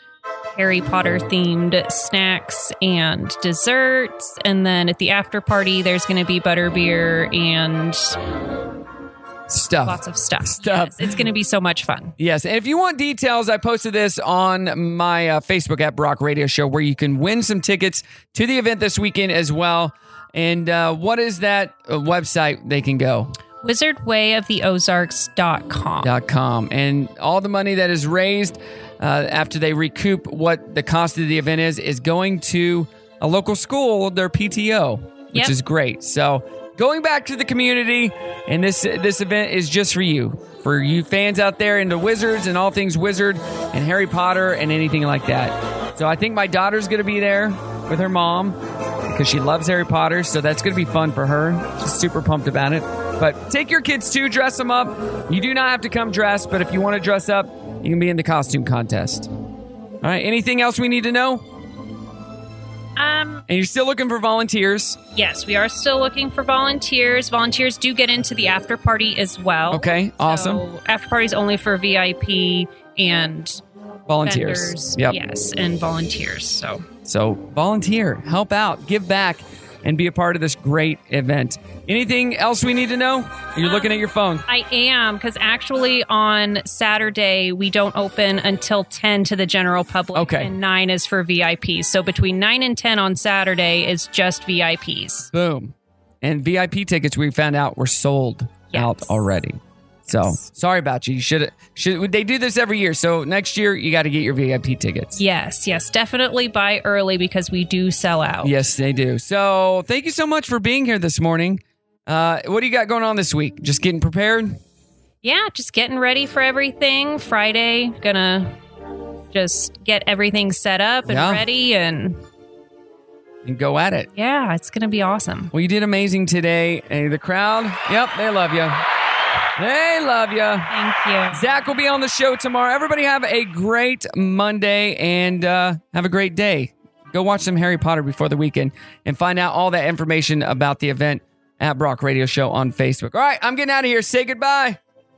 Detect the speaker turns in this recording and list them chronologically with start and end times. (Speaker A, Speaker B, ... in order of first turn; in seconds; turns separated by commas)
Speaker A: 0.5-8.1, Speaker B: 9.5-10.0, Speaker A: 9.8-12.2, Speaker B: 10.5-10.9, Speaker B: 12.2-23.3, Speaker A: 23.6-26.1, Speaker B: 26.0-59.3, Speaker B: 60.0-61.4, Speaker A: 63.0-63.4, Speaker B: 63.5-65.0, Speaker A: 65.1-73.6, Speaker B: 69.7-70.6, Speaker B: 74.1-75.2, Speaker A: 74.2-76.8, Speaker B: 77.0-84.4, Speaker A: 83.6-95.3, Speaker B: 90.1-90.5, Speaker B: 95.3-105.2, Speaker A: 98.7-99.1, Speaker A: 100.1-100.4, Speaker A: 105.1-108.5, Speaker B: 108.4-114.6, Speaker A: 115.2-118.5, Speaker A: 119.3-122.2, Speaker B: 121.1-121.4, Speaker B: 123.4-124.1, Speaker A: 124.1-125.5, Speaker B: 125.5-128.8, Speaker B: 129.6-130.7, Speaker A: 130.7-131.7, Speaker B: 131.3-144.8